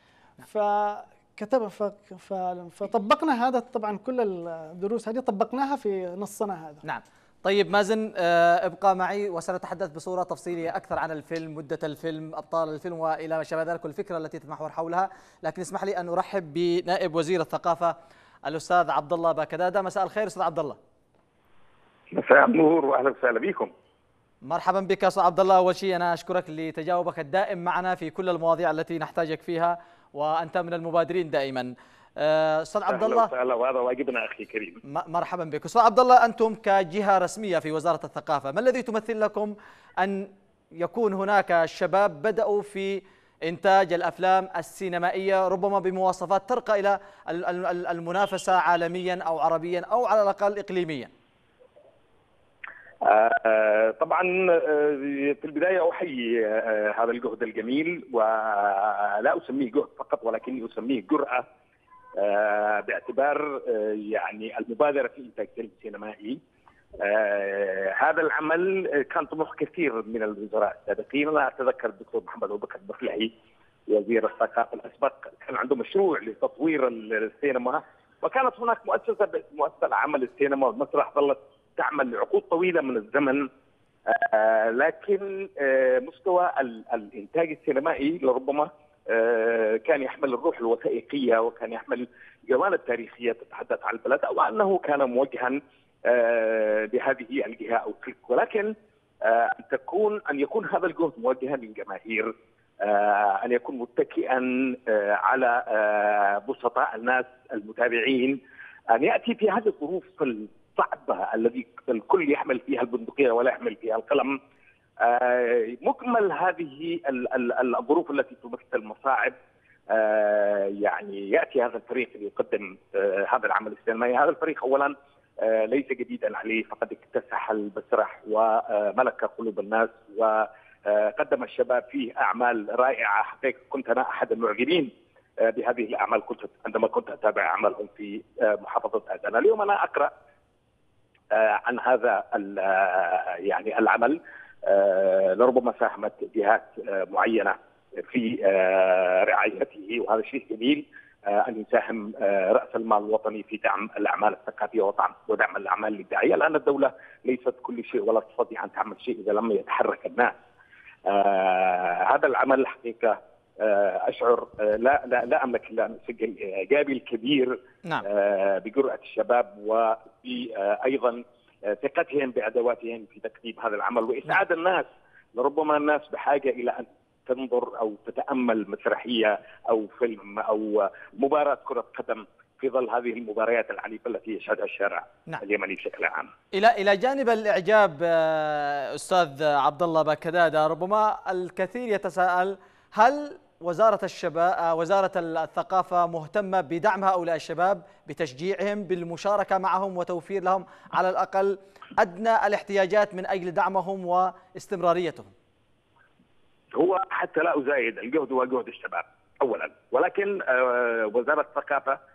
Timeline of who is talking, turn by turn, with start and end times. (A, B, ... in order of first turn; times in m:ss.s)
0:00.4-0:06.8 A
0:06.8-0:20.8 B
0:22.1-0:23.7 C
0:24.4-0:33.3 B
0:32.9-0:34.8 C
0:34.9-0:51.1 B
0:53.0-1:01.4 C
1:02.2-1:06.4 C
1:07.0-1:13.3 C
1:13.9-1:23.5 C
1:24.1-1:48.4 C
1:48.9-1:54.4 C
1:55.0-1:59.3 C
1:59.9-2:14.9 C
2:15.4-2:20.1 C
2:21.3-2:40.3 C
2:41.0-2:47.5 C
2:48.0-3:06.3 C
3:06.5-3:25.3 B
3:26.7-3:32.0 C